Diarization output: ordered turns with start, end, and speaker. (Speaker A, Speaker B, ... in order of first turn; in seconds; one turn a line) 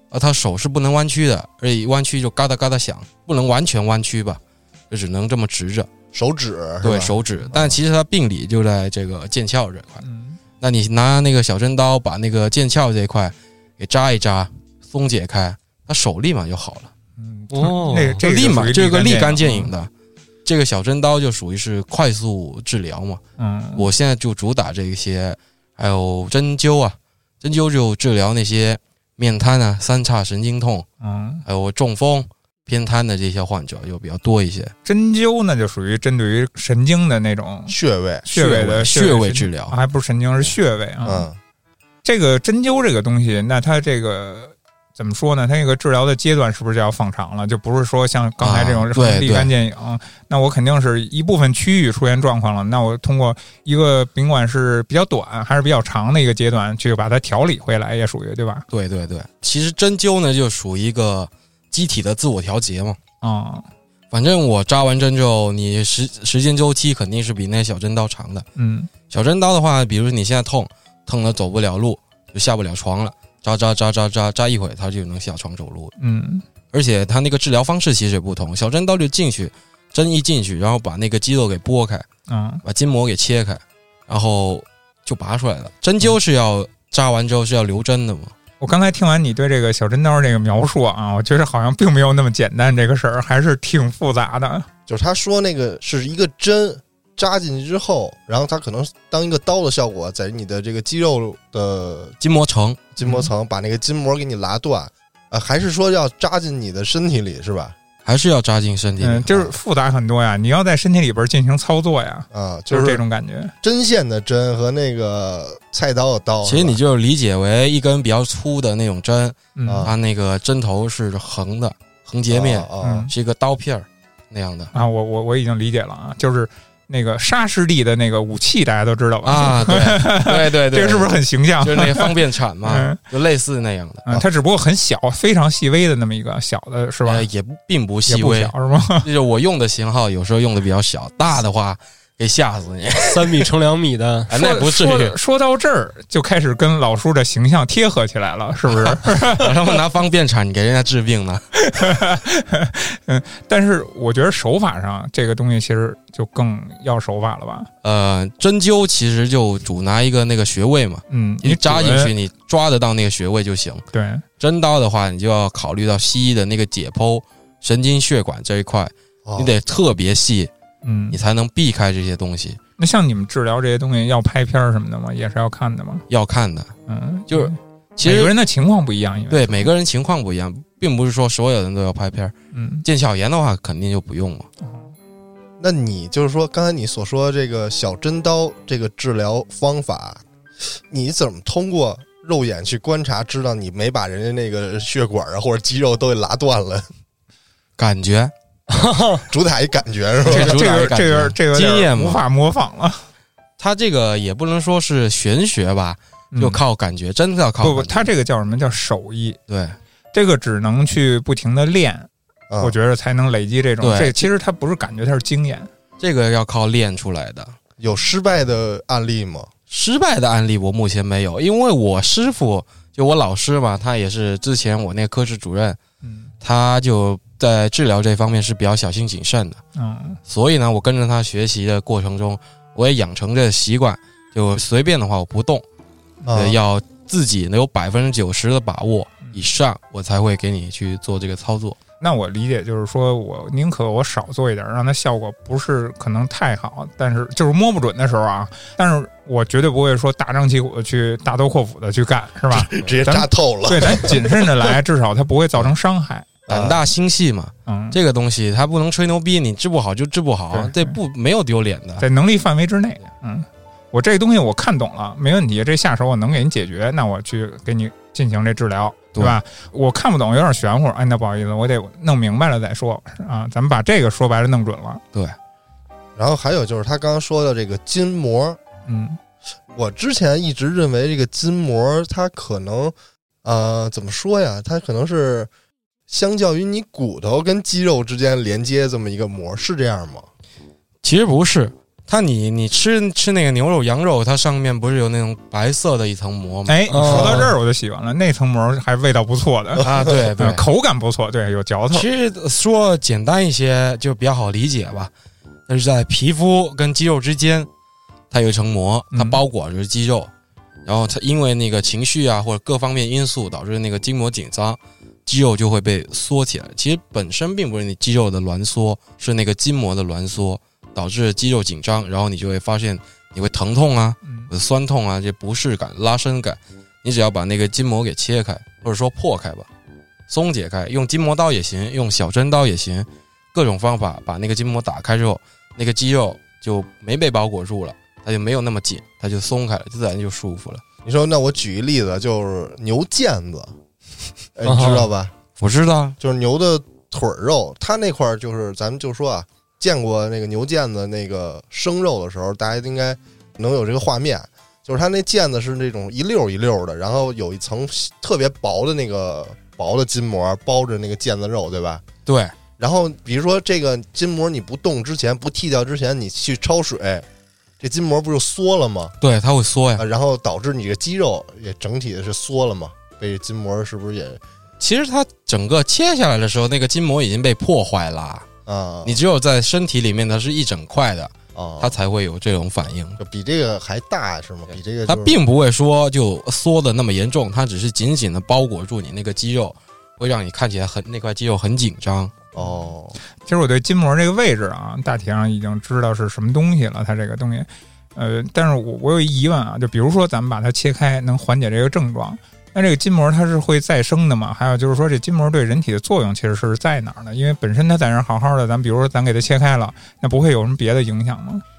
Speaker A: 0.1-5.9
Speaker B: 6.1-7.8
Speaker A: 6.8-10.0
Speaker C: 10.0-10.4
Speaker A: 10.6-16.9
Speaker C: 17.2-19.7
Speaker D: 17.5-18.2
Speaker A: 18.2-19.9
Speaker A: 20.4-23.2
Speaker C: 23.4-23.9
Speaker A: 23.8-30.9
Speaker C: 31.0-31.4
Speaker A: 31.5-34.7
Speaker C: 34.9-37.8
Speaker B: 37.7-38.3
Speaker C: 38.3-41.3
Speaker A: 38.3-39.7
Speaker B: 41.0-41.4
Speaker C: 42.0-58.7
Speaker A: 48.4-49.5
Speaker A: 58.7-63.0
Speaker C: 63.2-63.7
Speaker A: 64.1-68.5
Speaker C: 68.6-68.9
Speaker A: 69.1-75.9
Speaker C: 76.0-76.4
Speaker A: 76.7-82.1
Speaker C: 82.3-82.6
Speaker A: 82.6-88.3
Speaker C: 88.6-94.7
Speaker B: 94.9-102.2
Speaker A: 102.2-102.9
Speaker B: 103.0-107.8
Speaker C: 103.0-103.3
Speaker A: 108.0-109.5
Speaker C: 109.0-113.5
Speaker B: 112.3-113.0
Speaker B: 113.6-116.8
Speaker A: 116.5-124.7
Speaker C: 119.6-119.9
Speaker B: 119.7-120.0
Speaker B: 122.3-123.1
Speaker C: 122.8-123.1
Speaker C: 124.7-133.0
Speaker A: 129.2-134.2
Speaker C: 134.1-137.3
Speaker A: 137.1-143.5
Speaker C: 138.1-139.1
Speaker D: 143.1-144.3
Speaker A: 144.3-145.2
Speaker C: 144.3-149.5
Speaker A: 149.3-151.4
Speaker C: 151.6-157.7
Speaker A: 157.8-163.8
Speaker C: 161.1-162.1
Speaker C: 163.9-164.2
Speaker A: 164.4-170.5
Speaker B: 169.3-169.5
Speaker C: 170.8-171.2
Speaker A: 171.1-172.6
Speaker C: 172.8-176.1
Speaker A: 176.1-176.7
Speaker C: 176.9-179.7
Speaker A: 177.3-178.3
Speaker A: 179.3-182.3
Speaker C: 182.5-182.8
Speaker A: 182.8-184.5
Speaker B: 185.6-190.2
Speaker B: 190.9-196.9
Speaker A: 197.8-198.3
Speaker D: 198.7-199.3
Speaker B: 199.3-200.6
Speaker A: 200.2-202.2
Speaker C: 200.3-203.1
Speaker A: 203.6-208.1
Speaker C: 206.3-206.6
Speaker C: 207.6-209.4
Speaker A: 209.5-209.8
Speaker C: 210.1-212.1
Speaker B: 212.5-212.8
Speaker C: 212.6-215.7
Speaker A: 213.8-214.3
Speaker A: 216.0-217.6
Speaker B: 217.8-219.5
Speaker A: 219.7-225.8
Speaker C: 226.0-226.3
Speaker A: 226.4-229.6
Speaker C: 229.8-230.2
Speaker A: 230.3-235.6
Speaker B: 236.3-236.6
Speaker A: 236.3-241.8
Speaker C: 242.0-256.3
Speaker B: 252.5-254.5
Speaker B: 256.5-256.8
Speaker A: 256.5-262.1
Speaker C: 257.7-258.0
Speaker C: 260.5-261.0
Speaker C: 262.0-275.0
Speaker B: 276.2-278.6
Speaker C: 278.9-279.2
Speaker B: 279.7-285.5
Speaker B: 286.1-290.3
Speaker A: 291.0-297.4
Speaker C: 296.7-302.1
Speaker D: 296.9-297.5
Speaker B: 297.1-297.4
Speaker B: 299.8-300.1
Speaker A: 299.8-300.6
Speaker A: 301.9-305.1
Speaker A: 305.7-307.7
Speaker A: 308.3-310.3
Speaker C: 309.1-309.4
Speaker A: 310.9-329.7
Speaker C: 324.2-324.5
Speaker A: 330.3-340.8
Speaker B: 341.1-343.7
Speaker B: 344.6-345.3
Speaker D: 344.7-345.1
Speaker A: 345.6-346.2
Speaker B: 346.2-362.0
Speaker A: 362.3-362.5
Speaker B: 362.8-367.3
Speaker B: 367.8-369.2
Speaker A: 369.2-370.0
Speaker B: 370.0-374.4
Speaker A: 374.8-378.5
Speaker B: 378.7-379.2
Speaker A: 379.1-383.2
Speaker B: 381.6-382.0
Speaker B: 383.2-385.4
Speaker A: 385.1-392.4
Speaker B: 392.5-393.2
Speaker C: 393.4-411.6